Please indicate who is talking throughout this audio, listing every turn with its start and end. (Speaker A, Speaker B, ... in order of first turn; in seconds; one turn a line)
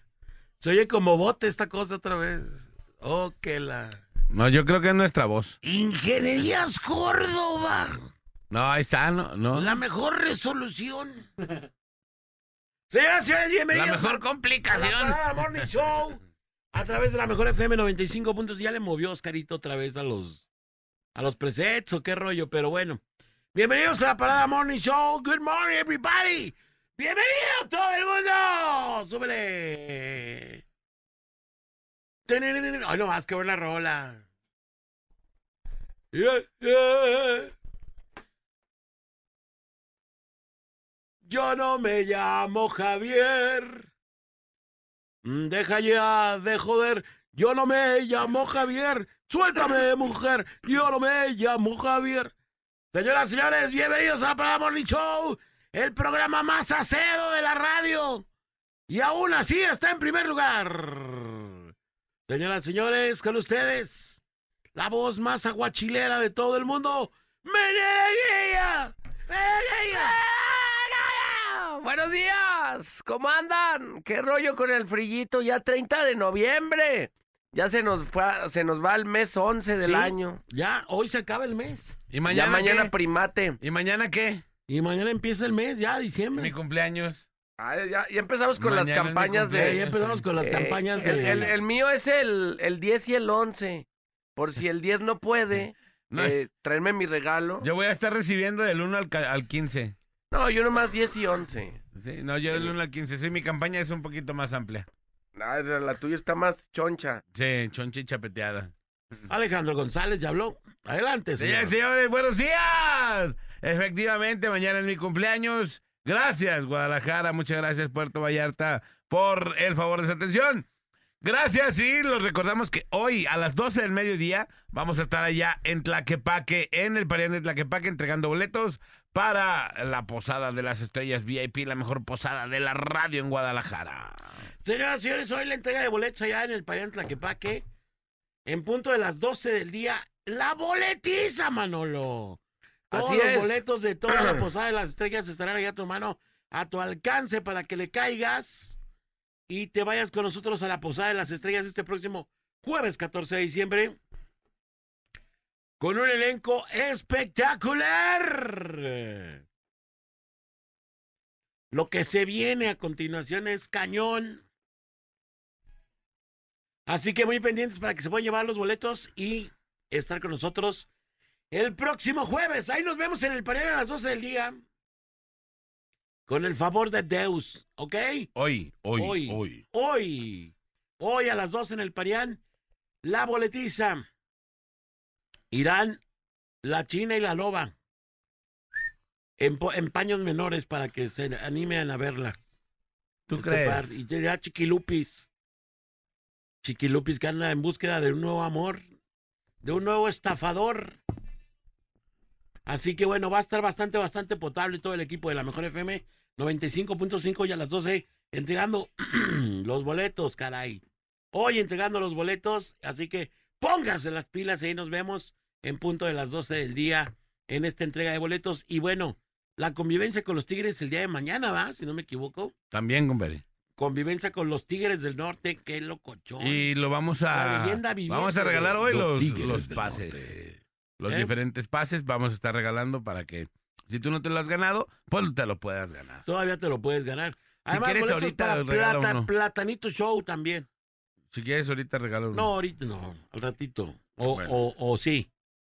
Speaker A: 0.6-4.0
Speaker B: 4.3-5.6
Speaker A: 5.6-8.1
Speaker B: 8.5-9.8
Speaker A: 9.5-11.3
Speaker A: 12.9-16.2
Speaker B: 13.7-15.7
Speaker A: 16.7-20.5
Speaker A: 21.1-23.0
Speaker A: 23.5-30.6
Speaker A: 32.3-34.2
Speaker A: 36.1-37.5
Speaker A: 41.2-43.9
Speaker A: 45.2-52.3
Speaker A: 52.9-58.3
Speaker A: 58.9-61.6
Speaker A: 62.3-64.2
Speaker A: 64.8-70.2
Speaker C: 69.3-80.4
Speaker A: 79.8-82.0
Speaker B: 82.1-82.9
Speaker C: 82.3-83.6
Speaker B: 83.6-84.5
Speaker A: 84.7-86.5
Speaker B: 86.3-87.3
Speaker C: 87.6-89.8
Speaker B: 88.6-90.3
Speaker A: 89.5-91.5
Speaker C: 90.4-97.7
Speaker B: 96.1-96.4
Speaker B: 97.6-100.0
Speaker C: 100.3-101.8
Speaker B: 102.0-104.9
Speaker C: 105.4-107.2
Speaker B: 107.3-108.7
Speaker A: 109.3-111.7
Speaker B: 111.4-120.7
Speaker B: 121.2-134.4
Speaker A: 134.6-137.6
Speaker A: 138.5-142.4
Speaker A: 142.9-148.8
Speaker C: 142.9-144.4
Speaker A: 149.5-154.0
Speaker A: 155.8-159.4
Speaker A: 161.7-164.4
Speaker A: 166.9-170.9
Speaker A: 171.5-174.6
Speaker A: 176.3-178.3
Speaker B: 178.3-179.6
Speaker A: 178.9-182.4
Speaker A: 183.0-184.1
Speaker A: 185.5-186.0
Speaker A: 186.6-187.7
Speaker A: 189.4-192.4
Speaker B: 193.3-193.9
Speaker A: 193.3-195.3
Speaker A: 196.6-198.8
Speaker A: 199.6-201.0
Speaker A: 202.7-222.6
Speaker B: 222.7-223.4
Speaker A: 223.8-226.7
Speaker B: 226.4-230.3
Speaker A: 227.3-231.3
Speaker B: 231.0-236.3
Speaker A: 236.2-240.7
Speaker B: 237.7-239.3
Speaker B: 241.3-242.5
Speaker A: 242.3-245.3
Speaker B: 244.3-244.6